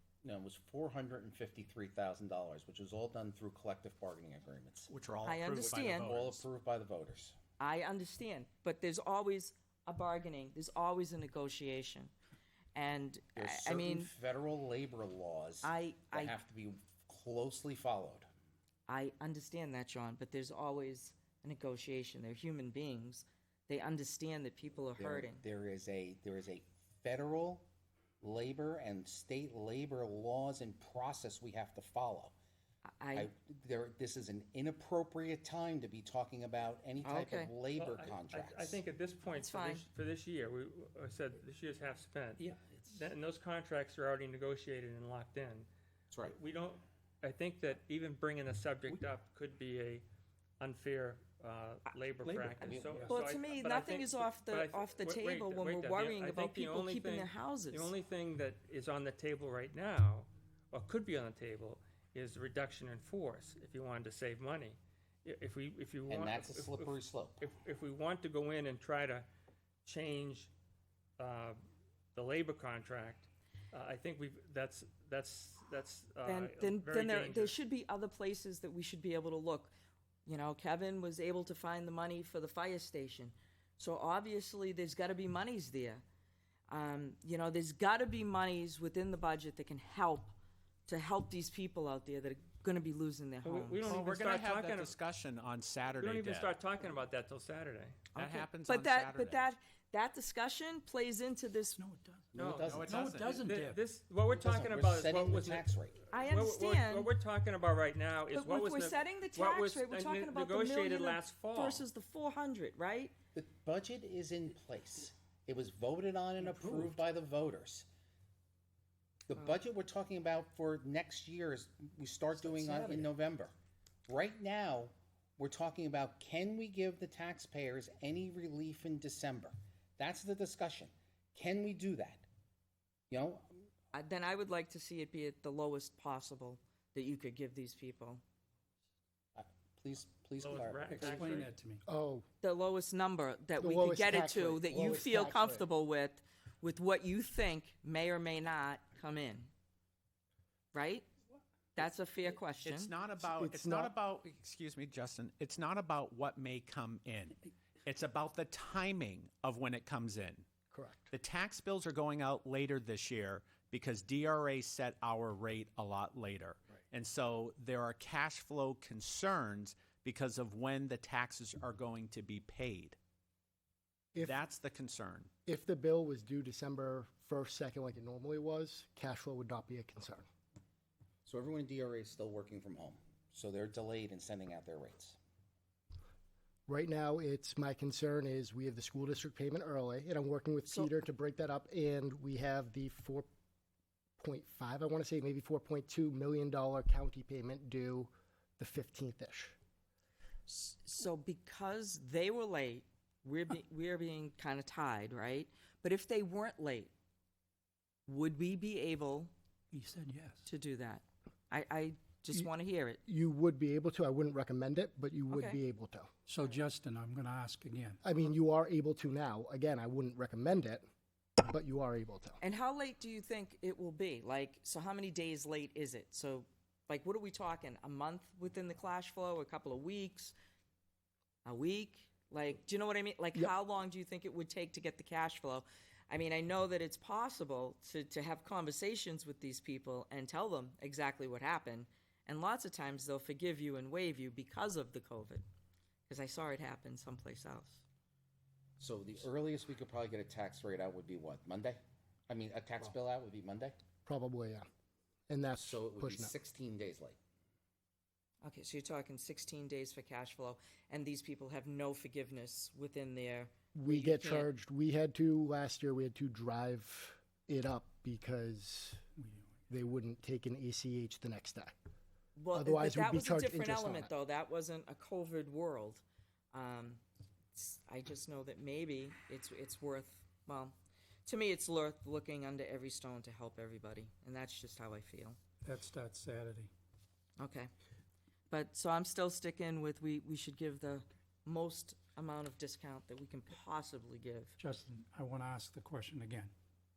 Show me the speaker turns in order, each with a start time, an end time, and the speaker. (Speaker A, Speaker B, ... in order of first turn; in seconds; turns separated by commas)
Speaker A: 0.2-4.9, Speaker B: 4.9-6.4, Speaker C: 5.2-6.1, Speaker A: 5.8-7.4, Speaker C: 7.6-12.1, Speaker C: 12.8-14.1, Speaker A: 13.4-18.3, Speaker C: 15.6-16.4, Speaker C: 18.9-25.4, Speaker A: 25.0-27.7, Speaker A: 28.2-32.4, Speaker C: 33.0-33.3, Speaker A: 33.1-38.8, Speaker C: 37.0-37.5, Speaker D: 37.8-45.7, Speaker C: 39.3-39.9, Speaker D: 46.3-50.0, Speaker D: 50.6-69.3, Speaker A: 52.2-53.1, Speaker C: 53.1-57.9, Speaker A: 66.1-67.5, Speaker D: 69.9-70.5, Speaker D: 71.2-71.6, Speaker D: 72.2-77.6, Speaker C: 76.3-79.7, Speaker C: 80.3-86.0, Speaker C: 86.7-90.3, Speaker C: 90.9-94.0, Speaker D: 93.4-95.0, Speaker B: 93.9-96.5, Speaker D: 96.0-98.4, Speaker B: 98.2-99.5, Speaker C: 98.2-101.8, Speaker E: 101.8-102.3, Speaker A: 102.3-103.0, Speaker D: 102.4-111.9, Speaker B: 102.6-103.4, Speaker E: 102.9-103.8, Speaker A: 104.3-106.0, Speaker C: 106.1-107.1, Speaker C: 108.3-113.1, Speaker A: 113.3-117.9, Speaker E: 116.4-116.9, Speaker A: 119.3-123.5, Speaker E: 122.4-123.1, Speaker A: 124.1-132.3, Speaker A: 133.1-133.5, Speaker C: 133.9-138.2, Speaker A: 139.4-141.3, Speaker D: 140.4-141.5, Speaker E: 140.9-141.8, Speaker F: 141.9-142.2, Speaker C: 142.4-149.5, Speaker F: 143.6-145.7, Speaker C: 150.7-151.1, Speaker C: 151.8-152.9, Speaker B: 152.6-160.5, Speaker F: 153.3-153.9, Speaker F: 160.7-161.1, Speaker B: 161.1-173.0, Speaker B: 174.2-175.3, Speaker F: 175.5-180.3, Speaker A: 181.3-185.2, Speaker F: 186.7-193.3, Speaker F: 194.2-199.6, Speaker C: 200.5-206.9, Speaker C: 208.1-209.3, Speaker E: 209.7-210.5, Speaker C: 210.5-213.0, Speaker F: 213.1-216.1, Speaker C: 215.3-215.6, Speaker E: 216.3-218.0, Speaker F: 218.0-220.8, Speaker F: 221.4-222.4, Speaker C: 222.4-230.3, Speaker C: 231.4-245.4, Speaker C: 246.1-247.8, Speaker A: 248.8-253.8, Speaker F: 254.1-254.6, Speaker F: 255.3-256.3, Speaker A: 255.6-257.2, Speaker C: 258.4-264.5, Speaker F: 263.8-269.0, Speaker E: 269.2-269.6, Speaker F: 269.7-271.7, Speaker C: 272.4-277.0, Speaker F: 272.6-274.1, Speaker C: 277.5-285.4, Speaker E: 285.6-286.7, Speaker C: 287.4-287.7, Speaker C: 288.5-294.6, Speaker E: 294.6-296.5